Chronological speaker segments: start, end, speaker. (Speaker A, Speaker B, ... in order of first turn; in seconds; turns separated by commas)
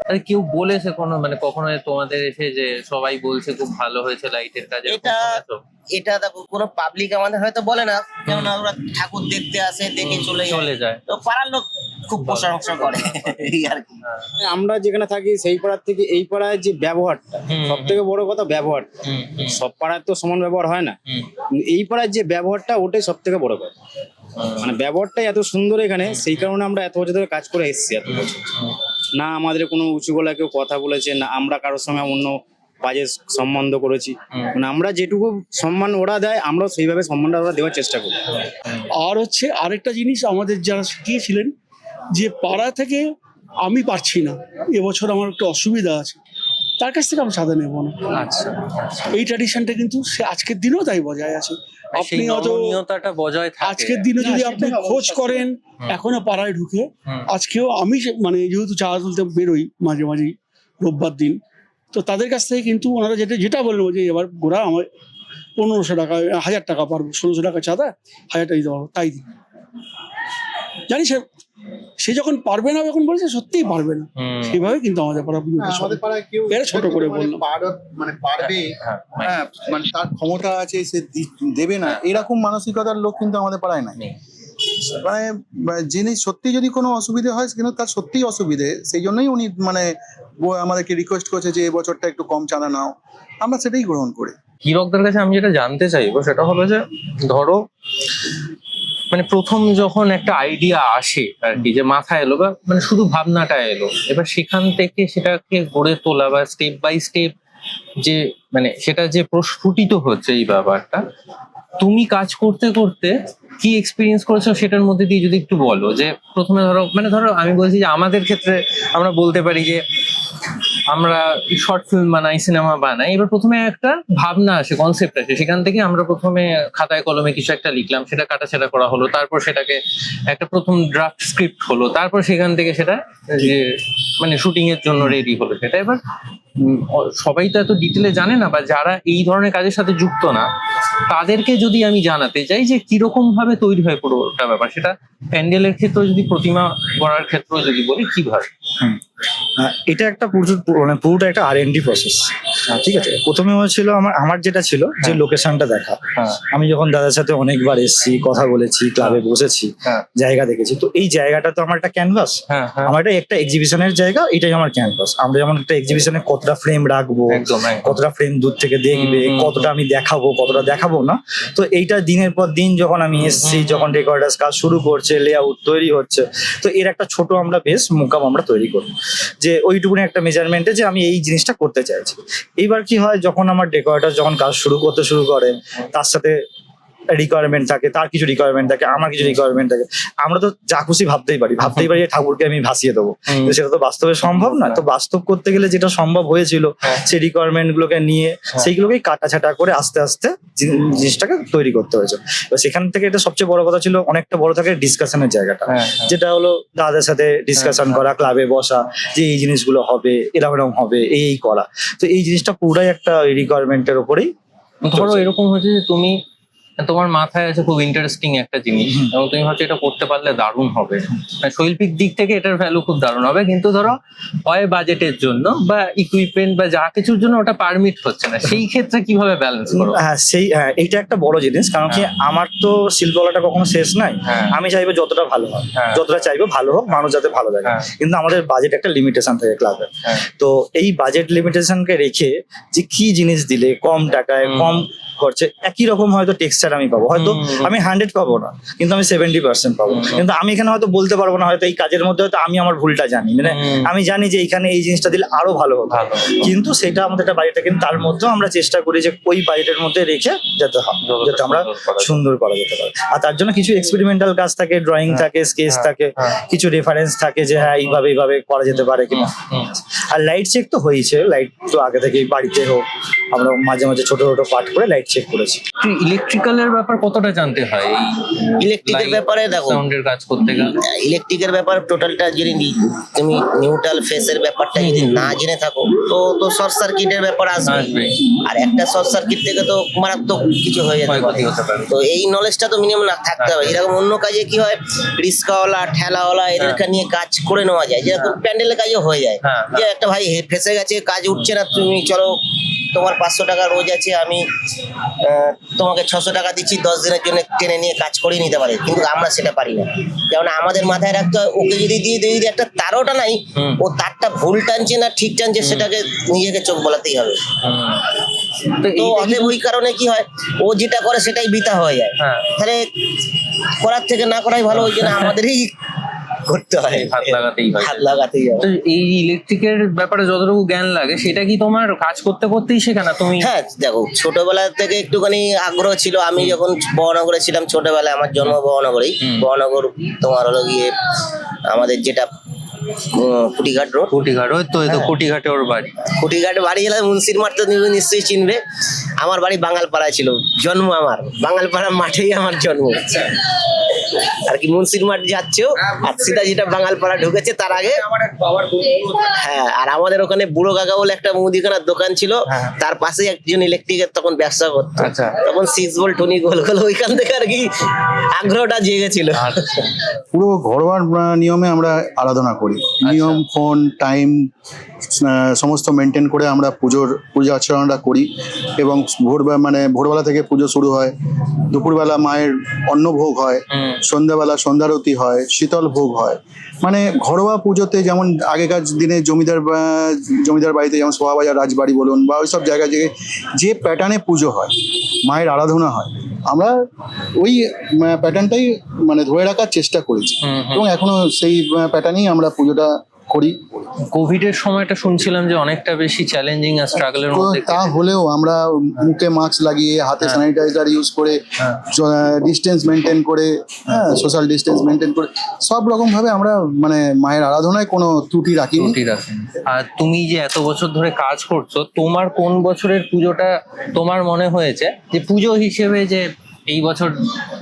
Speaker A: 0.1-5.6, Speaker B: 4.9-5.4, Speaker B: 5.9-14.0, Speaker A: 8.3-8.6, Speaker A: 10.0-11.0, Speaker A: 12.2-14.3, Speaker C: 14.4-18.9, Speaker A: 17.5-18.0, Speaker A: 19.1-19.6, Speaker C: 19.5-21.0, Speaker C: 21.6-23.8, Speaker A: 24.4-24.7, Speaker C: 24.6-28.4, Speaker A: 26.1-26.4, Speaker A: 28.1-28.8, Speaker C: 29.2-38.2, Speaker D: 39.0-41.5, Speaker D: 42.1-43.1, Speaker D: 43.6-46.2, Speaker D: 46.8-48.2, Speaker A: 48.1-49.1, Speaker D: 49.1-52.8, Speaker A: 52.0-54.2, Speaker D: 53.6-61.4, Speaker E: 54.2-55.5, Speaker D: 61.9-64.9, Speaker D: 65.6-69.2, Speaker D: 70.9-71.2, Speaker D: 72.0-77.4, Speaker A: 74.2-74.6, Speaker E: 75.6-84.0, Speaker A: 78.4-79.3, Speaker E: 84.9-94.3, Speaker A: 94.6-97.7, Speaker A: 99.1-107.3, Speaker A: 108.0-111.0, Speaker A: 111.8-119.8, Speaker A: 120.9-133.7, Speaker A: 134.2-136.0, Speaker A: 136.6-140.5, Speaker A: 141.1-148.5, Speaker F: 149.6-186.4, Speaker A: 152.7-153.0, Speaker A: 162.5-162.9, Speaker A: 167.3-168.0, Speaker A: 168.9-169.7, Speaker A: 173.1-174.0, Speaker F: 187.1-214.3, Speaker A: 193.3-193.6, Speaker A: 194.3-194.8, Speaker A: 205.7-206.1, Speaker A: 207.6-208.1, Speaker A: 214.8-216.2, Speaker F: 214.9-215.3, Speaker A: 216.8-230.0, Speaker F: 229.7-275.6, Speaker A: 234.2-234.6, Speaker A: 235.8-236.0, Speaker A: 244.4-244.8, Speaker A: 247.1-247.7, Speaker A: 249.9-250.2, Speaker A: 253.4-253.9, Speaker A: 255.9-256.4, Speaker A: 261.1-262.2, Speaker A: 265.1-266.4, Speaker A: 267.6-268.0, Speaker A: 268.7-269.7, Speaker A: 275.8-280.8, Speaker B: 278.6-279.8, Speaker B: 280.4-304.4, Speaker A: 284.8-285.4, Speaker A: 287.6-288.2, Speaker A: 291.1-291.9, Speaker A: 293.4-293.8, Speaker A: 299.4-299.9, Speaker B: 305.1-317.5, Speaker A: 315.6-315.9, Speaker A: 317.6-318.1, Speaker A: 318.7-319.6, Speaker B: 318.9-325.8, Speaker A: 322.2-322.4, Speaker A: 324.7-325.4, Speaker B: 326.4-328.7, Speaker A: 326.9-333.5, Speaker B: 333.4-340.9, Speaker A: 339.2-339.5, Speaker B: 341.6-342.3, Speaker B: 342.9-344.1, Speaker A: 344.1-345.9, Speaker B: 344.9-345.1, Speaker B: 346.1-348.6, Speaker B: 349.2-353.4, Speaker B: 354.0-369.9, Speaker A: 365.0-365.4, Speaker A: 369.4-369.9, Speaker E: 370.3-374.4, Speaker A: 373.1-373.4, Speaker E: 375.2-378.3, Speaker E: 378.8-381.1, Speaker E: 381.7-394.7, Speaker A: 383.7-384.0, Speaker E: 395.3-396.8, Speaker E: 397.4-403.6, Speaker A: 400.4-400.9, Speaker A: 404.1-407.9, Speaker E: 406.9-419.0, Speaker A: 418.8-427.1